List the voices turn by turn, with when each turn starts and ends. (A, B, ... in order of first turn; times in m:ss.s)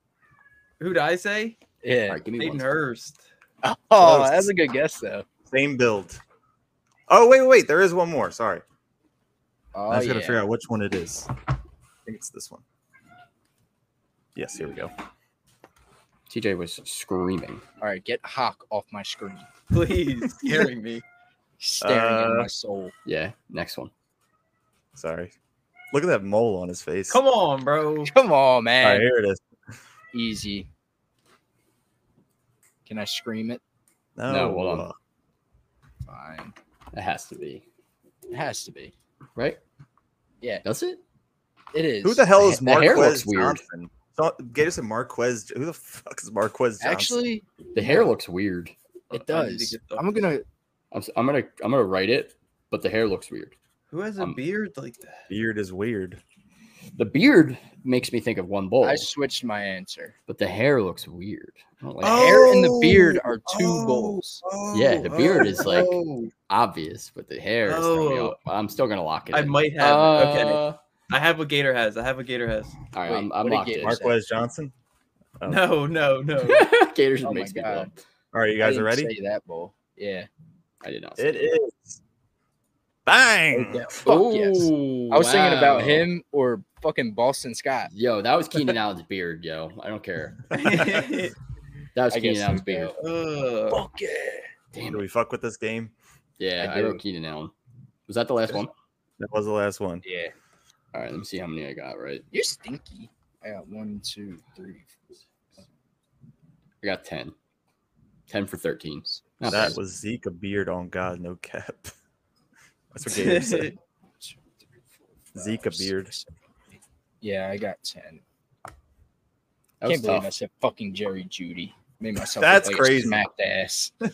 0:00.8-0:01.6 A
0:01.8-0:02.2 B
0:02.1-0:02.7 C
0:02.4-0:03.2 A
0:03.6-0:05.2 B
0:04.0-0:04.5 D
0:05.5-0:06.2 D
0:07.1-0:08.6 D
0:09.7-0:10.4 B
0:09.9-0:11.3 D
0:12.0-0:12.6 D
0:14.4-0:14.9 D
0:16.3-0:17.6 C
0:17.8-0:19.5 B
0:19.7-0:21.0 A
0:21.6-0:22.9 B
0:21.8-0:22.5 D
0:23.0-0:23.9 C
0:24.9-0:25.3 D
0:25.9-0:27.2 D
0:27.1-0:28.1 A
0:28.1-0:29.0 B
0:28.8-0:29.4 D
0:30.1-0:30.7 B
0:32.8-0:33.6 B
0:34.2-0:35.0 D
0:34.3-0:34.9 C
0:36.0-0:36.5 B
0:36.9-0:37.6 C
0:38.3-0:38.9 B
0:40.6-0:41.0 C
0:41.7-0:42.3 B
0:42.0-0:47.2 D
0:42.4-0:43.6 C
0:46.8-0:47.5 B
0:47.7-0:48.7 C
0:49.1-0:50.2 A
0:49.1-0:50.4 B
0:50.9-0:53.5 C
0:53.9-0:55.3 A
0:55.3-0:56.2 D
0:57.0-0:59.1 C
0:58.8-1:00.1 B
1:00.3-1:02.5 C
1:02.0-1:02.9 A
1:02.0-1:04.4 B
1:03.5-1:06.3 A
1:04.7-1:10.8 C
1:04.7-1:05.9 D
1:07.6-1:08.4 A
1:09.3-1:12.8 A
1:12.9-1:14.0 C
1:13.0-1:14.1 B
1:13.8-1:14.7 D
1:15.4-1:15.7 D
1:15.4-1:16.7 A
1:16.4-1:17.9 C
1:17.2-1:17.9 B
1:18.3-1:19.1 D
1:18.6-1:20.3 B
1:20.8-1:21.5 C
1:21.2-1:22.0 D
1:23.0-1:24.0 D
1:23.5-1:27.9 B
1:24.0-1:26.1 C
1:27.9-1:31.0 C
1:30.5-1:31.3 A
1:31.9-1:33.0 C
1:32.1-1:33.0 B
1:33.0-1:33.8 A
1:33.7-1:34.5 B
1:34.7-1:35.0 C
1:34.9-1:35.9 D
1:36.4-1:37.5 C
1:36.6-1:37.0 B
1:38.1-1:38.7 C
1:39.2-1:40.0 D
1:40.0-1:40.3 B
1:40.9-1:42.2 C
1:42.3-1:45.0 B
1:46.8-1:47.3 C
1:48.3-1:49.8 C
1:49.5-1:51.9 D
1:52.9-1:53.7 D
1:53.1-1:53.7 A
1:54.2-1:56.3 B
1:55.3-1:56.1 D
1:57.2-1:58.2 B
1:59.8-2:00.3 C
1:59.8-2:03.9 B
2:02.4-2:03.2 D